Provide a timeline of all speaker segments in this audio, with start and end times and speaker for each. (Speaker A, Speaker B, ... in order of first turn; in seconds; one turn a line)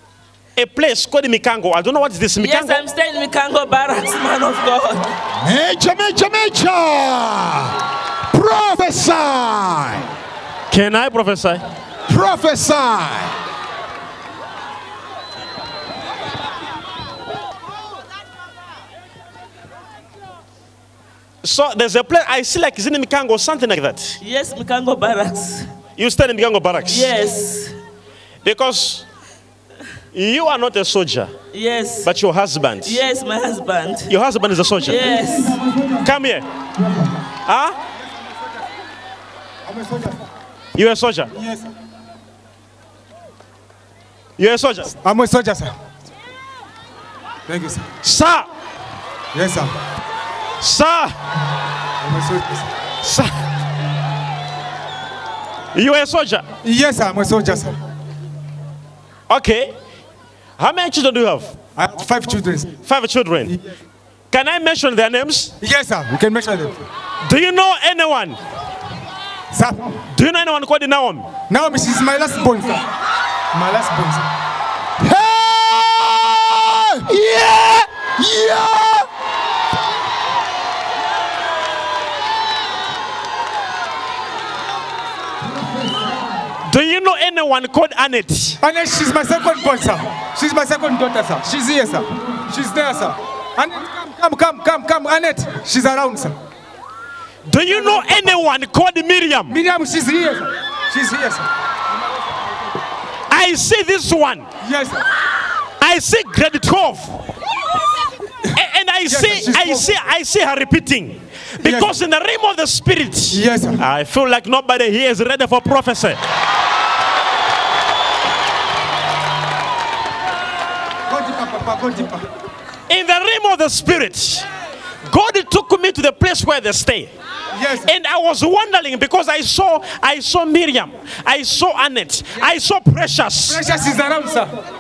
Speaker A: 0.6-2.8
Speaker B: 2.4-5.1
Speaker C: 5.4-10.1
Speaker A: 10.7-11.6
Speaker C: 12.1-13.3
Speaker A: 21.4-24.2
Speaker B: 24.2-25.7
Speaker A: 26.0-27.1
Speaker B: 26.9-27.8
Speaker A: 28.4-29.1
Speaker A: 30.1-31.3
Speaker B: 31.5-32.1
Speaker A: 32.0-33.0
Speaker B: 32.9-34.1
Speaker A: 34.1-35.0
Speaker B: 34.8-35.6
Speaker D: 35.1-36.0
Speaker A: 36.0-36.5
Speaker D: 36.8-37.1
Speaker A: 37.5-37.8
Speaker D: 38.0-38.4
Speaker D: 39.7-40.2
Speaker A: 40.8-41.3
Speaker D: 41.3-41.7
Speaker A: 44.4-45.0
Speaker D: 45.0-45.8
Speaker D: 47.5-47.9
Speaker A: 48.0-48.5
Speaker D: 49.3-49.7
Speaker A: 50.6-51.1
Speaker D: 52.0-52.7
Speaker A: 53.0-53.3
Speaker A: 55.7-56.5
Speaker D: 56.6-57.7
Speaker A: 59.3-59.8
Speaker A: 60.6-61.6
Speaker D: 61.8-62.7
Speaker A: 62.8-63.5
Speaker A: 64.3-65.5
Speaker D: 65.6-66.8
Speaker A: 67.2-68.4
Speaker D: 69.5-69.9
Speaker A: 70.1-71.3
Speaker D: 71.5-72.8
Speaker D: 73.5-74.3
Speaker C: 75.0-79.1
Speaker A: 86.7-88.6
Speaker D: 88.6-96.3
Speaker A: 97.5-99.6
Speaker D: 99.5-101.5
Speaker A: 103.3-104.5
Speaker D: 104.6-105.0
Speaker A: 105.8-107.2
Speaker A: 108.5-116.2
Speaker D: 109.1-109.9
Speaker D: 111.6-111.9
Speaker D: 113.3-113.8
Speaker D: 121.1-122.2
Speaker A: 122.9-124.5
Speaker A: 125.0-127.1
Speaker D: 127.5-127.9
Speaker A: 127.8-133.6
Speaker D: 133.5-134.5